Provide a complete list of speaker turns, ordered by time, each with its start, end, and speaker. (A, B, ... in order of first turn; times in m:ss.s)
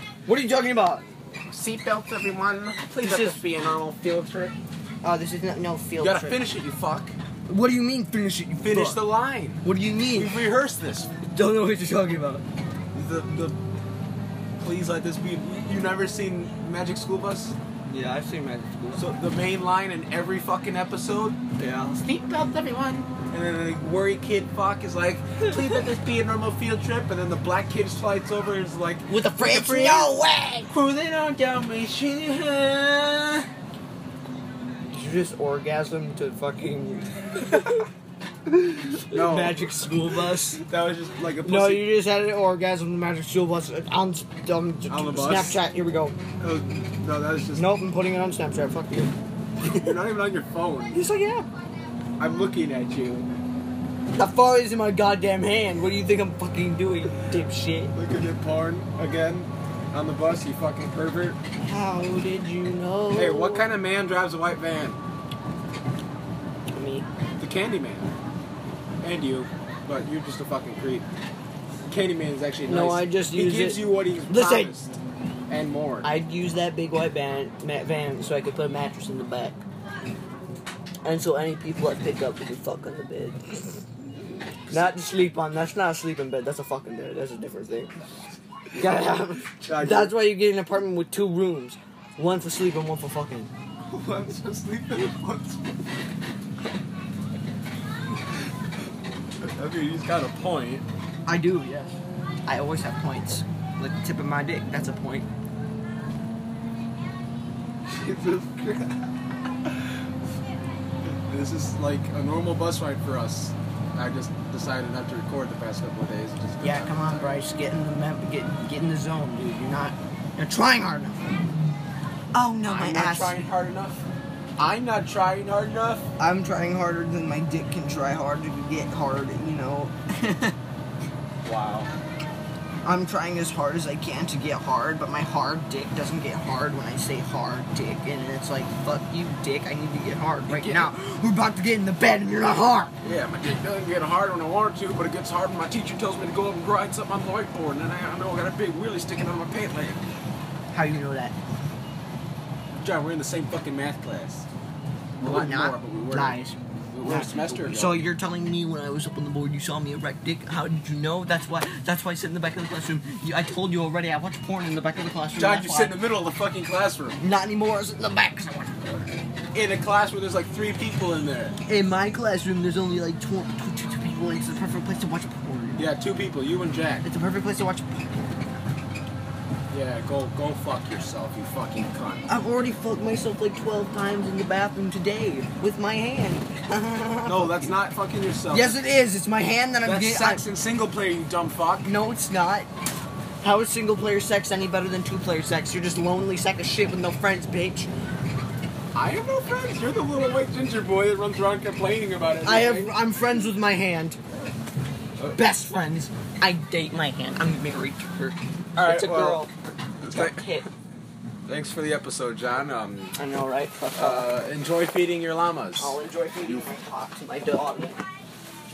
0:00.3-0:01.2 A
0:01.5-0:04.6 B
0:03.0-0:03.4 A
0:05.0-0:06.4 A
0:06.0-0:07.2 B
0:07.5-0:09.1 A
0:08.6-0:11.1 B
0:09.6-0:10.4 A
0:11.3-0:12.4 A
0:12.9-0:13.6 B
0:14.6-0:17.6 B
0:17.9-0:19.1 A
0:19.0-0:21.4 B
0:21.6-0:22.0 A
0:22.0-0:33.5 B
0:29.1-0:30.7 A
0:34.9-0:37.8 A
0:38.5-0:40.6 A
0:39.0-0:39.8 B
0:40.3-0:41.9 B
0:41.4-0:46.2 A
0:44.9-0:45.6 B
0:46.4-0:47.7 B
0:47.6-0:49.9 A
0:49.7-0:51.0 B
0:50.9-0:51.5 A
0:52.2-0:53.3 B
0:54.1-0:57.9 A
0:57.9-1:01.4 B
1:01.6-1:03.7 A
1:03.2-1:05.0 B
1:06.7-1:07.1 A
1:07.4-1:08.1 B
1:09.0-1:11.1 B
1:11.9-1:15.0 B
1:12.7-1:14.7 A
1:15.5-1:16.1 B
1:16.0-1:19.6 A
1:21.0-1:23.8 A
1:24.7-1:25.0 B
1:24.7-1:27.9 A
1:28.8-1:33.5 A
1:29.6-1:30.2 B
1:33.9-1:35.7 B
1:39.4-1:40.8 B
1:41.3-1:45.3 A
1:48.1-1:48.8 A
1:48.1-1:48.7 B
1:51.3-1:57.3 B
1:56.6-2:01.4 A
2:02.3-2:03.4 A
2:02.7-2:04.1 B
2:04.6-2:06.1 B
2:06.2-2:10.6 A
2:11.4-2:11.9 B
2:12.8-2:22.9 A
2:20.5-2:20.9 B
2:23.0-2:30.0 B
2:30.7-2:31.4 A
2:32.7-2:34.5 B
2:35.2-2:36.4 B
2:35.2-2:46.0 A
2:36.9-2:38.0 B
2:45.4-2:47.2 B
2:47.2-2:49.2 A
2:49.5-2:51.6 B
2:51.7-2:55.9 A
2:55.8-2:57.0 B
2:57.0-2:58.2 A
2:59.7-3:02.3 B
3:02.3-3:07.8 A
3:07.2-3:08.8 B
3:08.5-3:10.4 A
3:09.8-3:11.9 B
3:11.8-3:12.7 A
3:13.4-3:17.9 A
3:18.9-3:23.0 B
3:22.4-3:24.2 A
3:25.3-3:29.5 A
3:28.8-3:29.5 B
3:30.0-3:30.4 B
3:30.0-3:30.7 A
3:31.5-3:33.2 B
3:33.2-3:34.3 A
3:33.9-3:36.6 B
3:35.8-3:38.0 A